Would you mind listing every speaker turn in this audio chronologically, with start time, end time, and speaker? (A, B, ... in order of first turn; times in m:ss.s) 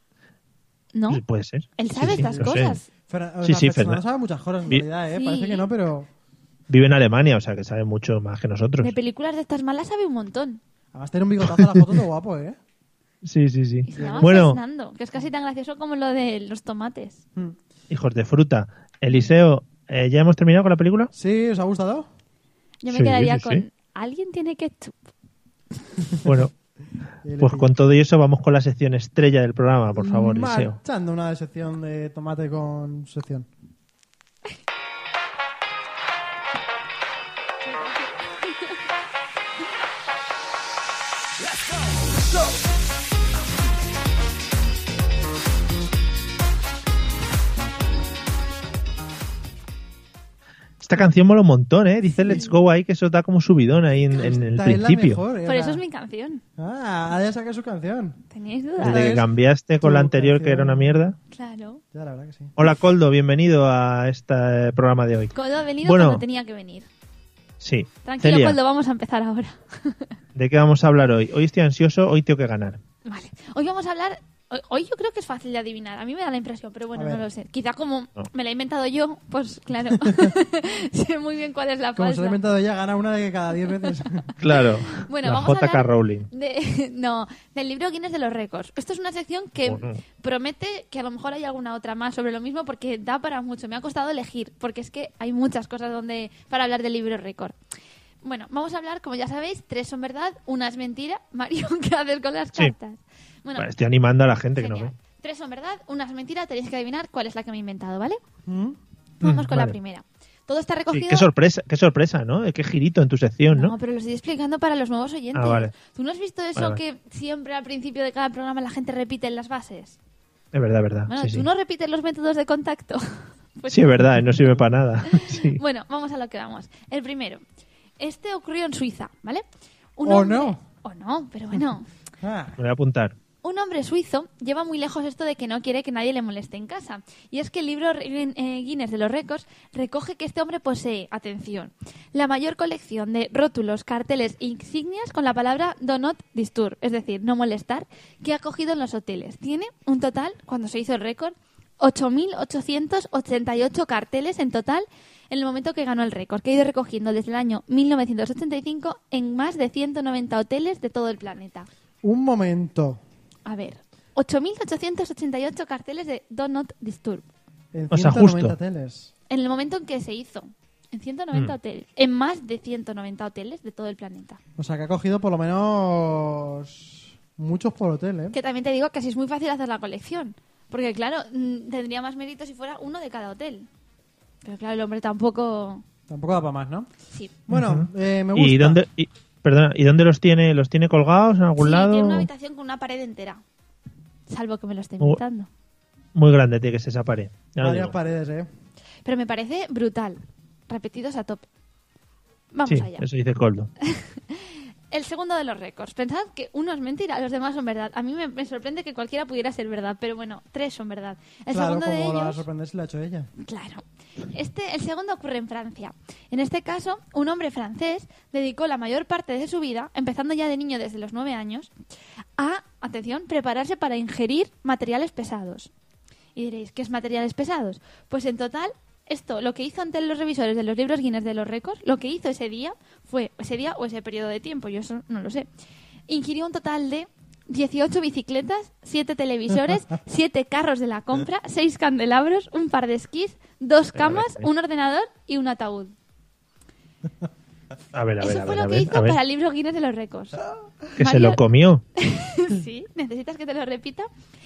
0:00.9-0:01.2 A
0:01.1-0:02.8 B
0:01.8-0:02.8 A
0:02.0-0:06.1 C
0:03.4-0:04.0 B
0:05.1-0:05.7 A
0:06.7-0:08.9 B
0:08.8-0:10.6 A
0:10.9-0:12.6 C
0:11.4-0:12.0 B
0:13.2-0:14.6 B
0:13.8-0:17.2 A
0:13.9-0:14.3 C
0:17.9-0:21.1 B
0:21.1-0:22.1 C
0:22.8-0:25.0 A
0:22.9-0:23.6 B
0:26.2-0:26.5 B
0:27.2-0:27.7 C
0:27.4-0:30.8 B
0:30.0-0:33.5 C
0:37.6-0:38.7 A
0:50.8-0:55.2 B
0:52.3-0:52.5 A
0:54.2-0:55.8 C
0:55.4-0:56.4 A
0:56.6-0:58.2 C
0:58.3-0:59.1 A
0:58.8-0:59.3 C
0:58.8-1:01.2 B
0:59.8-1:01.0 C
1:01.3-1:01.8 A
1:01.9-1:02.5 C
1:02.6-1:06.2 B
1:05.3-1:06.9 A
1:07.6-1:08.6 B
1:08.0-1:10.1 A
1:10.3-1:12.8 B
1:13.0-1:22.4 A
1:16.9-1:17.2 C
1:20.0-1:20.3 C
1:22.0-1:24.3 C
1:24.4-1:26.3 B
1:24.5-1:37.6 A
1:29.6-1:30.0 B
1:38.2-1:43.7 A
1:43.6-1:44.9 B
1:44.6-1:48.2 A
1:48.5-1:48.8 C
1:49.2-1:51.3 A
1:49.2-1:49.8 B
1:50.9-1:53.7 B
1:53.5-2:00.0 A
1:55.3-1:55.7 B
2:00.5-2:01.5 B
2:01.1-2:04.2 A
2:03.7-2:05.6 B
2:05.0-2:07.4 A
2:08.0-2:09.4 A
2:10.0-2:11.9 A
2:10.0-2:10.6 C
2:12.2-2:12.6 C
2:12.6-2:13.2 B
2:13.4-2:41.7 A
2:42.0-2:43.0 C
2:43.4-2:47.2 A
2:47.7-2:49.1 C
2:47.9-2:48.6 B
2:49.3-2:54.4 A
2:54.6-2:58.3 C
2:58.3-3:03.7 A
3:04.4-3:05.8 A
3:06.1-3:06.9 C
3:07.5-3:08.8 C
3:07.5-3:12.3 B
3:11.6-3:13.4 A
3:14.3-3:15.5 A
3:16.1-3:17.9 B
3:17.6-3:18.5 C
3:19.0-3:21.4 A
3:22.5-3:23.1 A
3:22.6-3:23.7 B
3:23.8-3:32.4 A
3:31.5-3:33.3 C
3:33.4-3:41.7 A
3:42.4-3:45.7 A
3:46.4-3:55.5 A
3:56.1-4:05.9 A
4:03.9-4:04.5 B
4:07.9-4:09.2 B
4:08.2-4:10.4 A
4:11.0-4:11.8 B
4:11.0-4:11.4 A
4:12.0-4:14.1 A